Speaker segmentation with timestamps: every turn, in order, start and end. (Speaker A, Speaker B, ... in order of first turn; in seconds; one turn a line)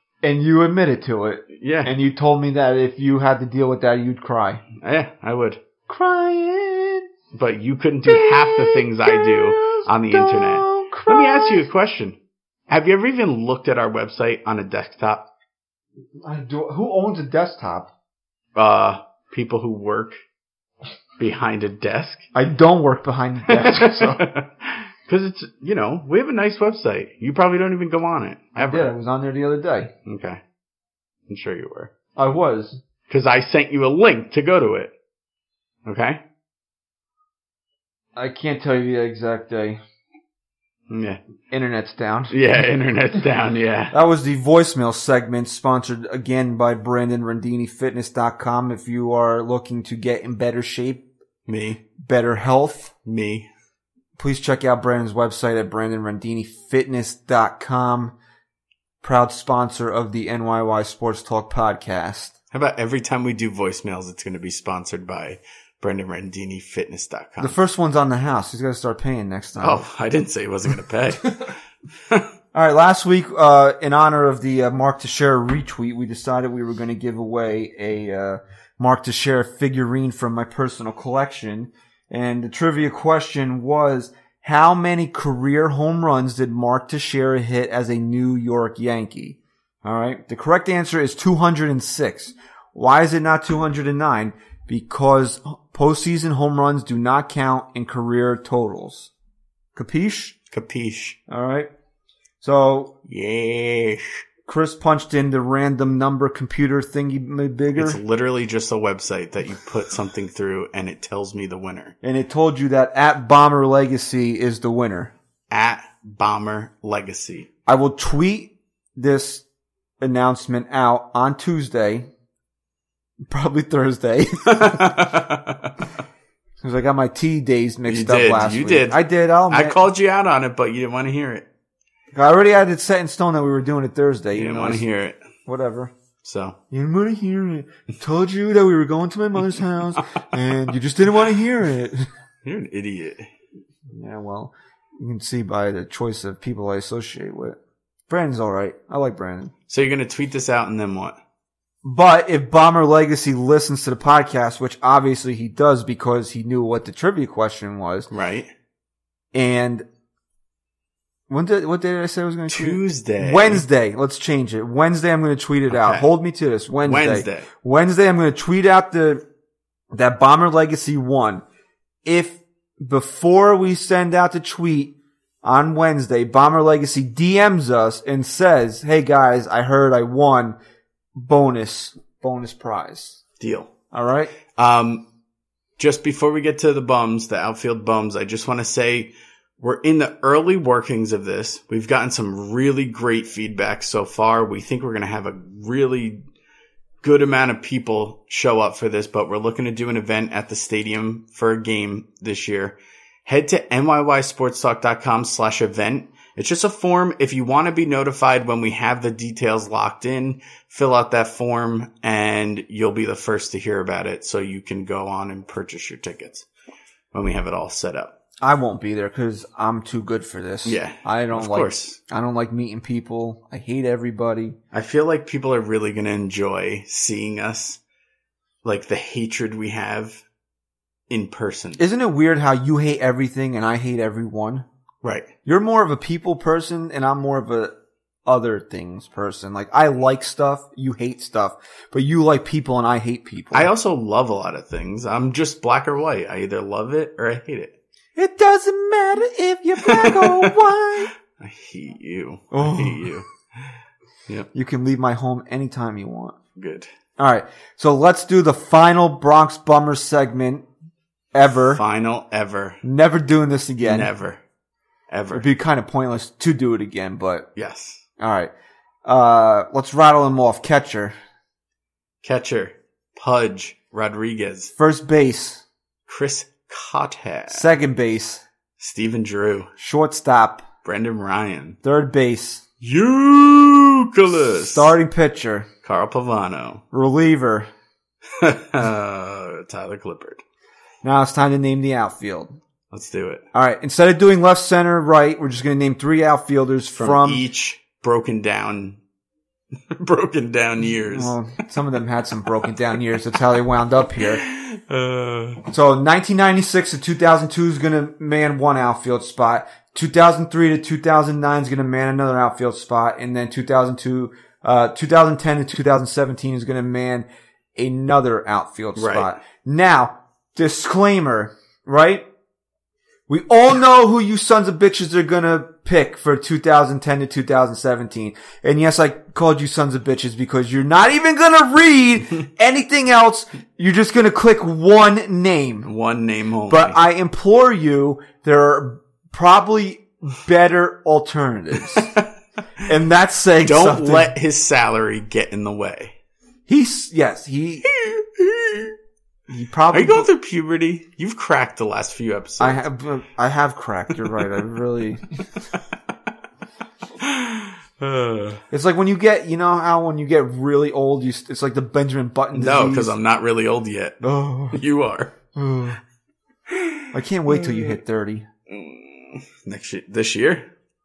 Speaker A: 0.2-4.6
Speaker B: 1.5-1.9
Speaker B: 4.8-5.6
Speaker A: 5.9-7.1
Speaker B: 7.3-12.2
Speaker A: 8.1-11.7
Speaker B: 12.7-15.2
Speaker A: 16.2-17.9
Speaker B: 18.6-20.2
Speaker B: 21.2-22.2
Speaker A: 22.3-24.2
Speaker B: 23.5-28.9
Speaker A: 28.6-29.9
Speaker B: 30.1-30.4
Speaker B: 31.3-31.9
Speaker A: 32.2-32.8
Speaker B: 33.1-34.9
Speaker B: 35.9-36.2
Speaker A: 38.2-39.8
Speaker B: 40.9-41.2
Speaker A: 41.5-42.3
Speaker B: 42.3-44.0
Speaker A: 43.9-51.0
Speaker B: 51.5-51.8
Speaker A: 52.0-52.9
Speaker B: 53.1-53.5
Speaker A: 54.2-58.1
Speaker A: 59.0-62.4
Speaker B: 62.5-67.6
Speaker A: 67.4-69.8
Speaker B: 69.6-71.5
Speaker A: 72.5-99.1
Speaker A: 99.8-100.3
Speaker B: 100.5-101.2
Speaker A: 101.3-101.7
Speaker A: 102.4-102.9
Speaker B: 103.1-104.2
Speaker A: 104.5-108.0
Speaker B: 107.8-111.9
Speaker A: 112.0-115.1
Speaker B: 115.5-117.5
Speaker A: 117.7-119.4
Speaker A: 120.0-122.1
Speaker A: 123.2-124.8
Speaker B: 124.5-125.7
Speaker A: 126.6-129.8
Speaker B: 127.9-131.4
Speaker A: 132.1-134.8
Speaker B: 134.3-135.2
Speaker A: 135.5-135.9
Speaker B: 136.2-136.6
Speaker A: 136.7-142.1
Speaker B: 142.4-143.3
Speaker A: 143.9-147.6
Speaker A: 148.1-149.5
Speaker B: 149.7-151.2
Speaker A: 151.8-158.1
Speaker B: 158.1-158.5
Speaker A: 159.3-159.8
Speaker A: 161.3-169.2
Speaker B: 162.5-163.6
Speaker B: 165.7-166.1
Speaker B: 166.8-167.5
Speaker A: 169.9-171.4
Speaker A: 172.1-180.6
Speaker A: 181.2-183.2
Speaker B: 183.4-183.7
Speaker A: 183.9-184.3
Speaker B: 184.6-185.0
Speaker B: 185.8-196.2
Speaker B: 197.0-216.5
Speaker B: 217.1-218.1
Speaker A: 218.4-224.6
Speaker B: 220.7-222.0
Speaker B: 224.7-227.8
Speaker B: 228.6-230.2
Speaker B: 231.1-231.8
Speaker A: 231.8-234.7
Speaker B: 235.0-235.3
Speaker A: 235.5-237.7
Speaker A: 238.3-243.7
Speaker B: 243.5-247.7
Speaker A: 248.2-251.1
Speaker B: 249.8-250.5
Speaker B: 251.4-253.3
Speaker A: 252.5-253.1
Speaker A: 254.5-256.4
Speaker B: 256.6-256.9
Speaker A: 257.2-260.6
Speaker A: 261.3-261.8
Speaker B: 261.7-262.8
Speaker A: 262.8-264.1
Speaker B: 263.8-264.4
Speaker B: 265.1-265.5
Speaker A: 265.3-267.5
Speaker B: 267.6-268.0
Speaker A: 268.2-268.5
Speaker A: 269.1-271.1
Speaker B: 272.2-274.7
Speaker A: 274.8-275.6
Speaker B: 276.1-277.7
Speaker A: 277.5-278.4
Speaker B: 278.8-279.7
Speaker A: 279.8-280.6
Speaker B: 280.8-281.8
Speaker A: 281.8-282.6
Speaker B: 282.8-284.9
Speaker A: 284.4-285.7
Speaker B: 285.8-286.8
Speaker A: 286.9-287.7
Speaker B: 288.4-290.4
Speaker A: 291.0-292.6
Speaker B: 292.9-293.4
Speaker A: 293.5-297.4
Speaker B: 297.0-299.0
Speaker B: 299.9-301.4
Speaker A: 301.0-304.4
Speaker B: 304.2-305.6
Speaker A: 305.7-322.3
Speaker B: 319.0-319.3
Speaker A: 323.3-335.9
Speaker B: 335.9-337.0
Speaker A: 336.7-342.1
Speaker B: 341.9-342.3
Speaker A: 342.9-344.3
Speaker B: 343.6-346.1
Speaker A: 346.7-347.9
Speaker B: 347.9-349.0
Speaker A: 349.5-350.3
Speaker B: 349.9-352.8
Speaker A: 352.6-355.2
Speaker B: 357.2-358.6
Speaker A: 358.7-363.2
Speaker B: 362.5-365.3
Speaker A: 364.2-364.8
Speaker A: 365.6-366.0
Speaker B: 366.7-368.0
Speaker A: 367.1-368.5
Speaker B: 368.7-370.7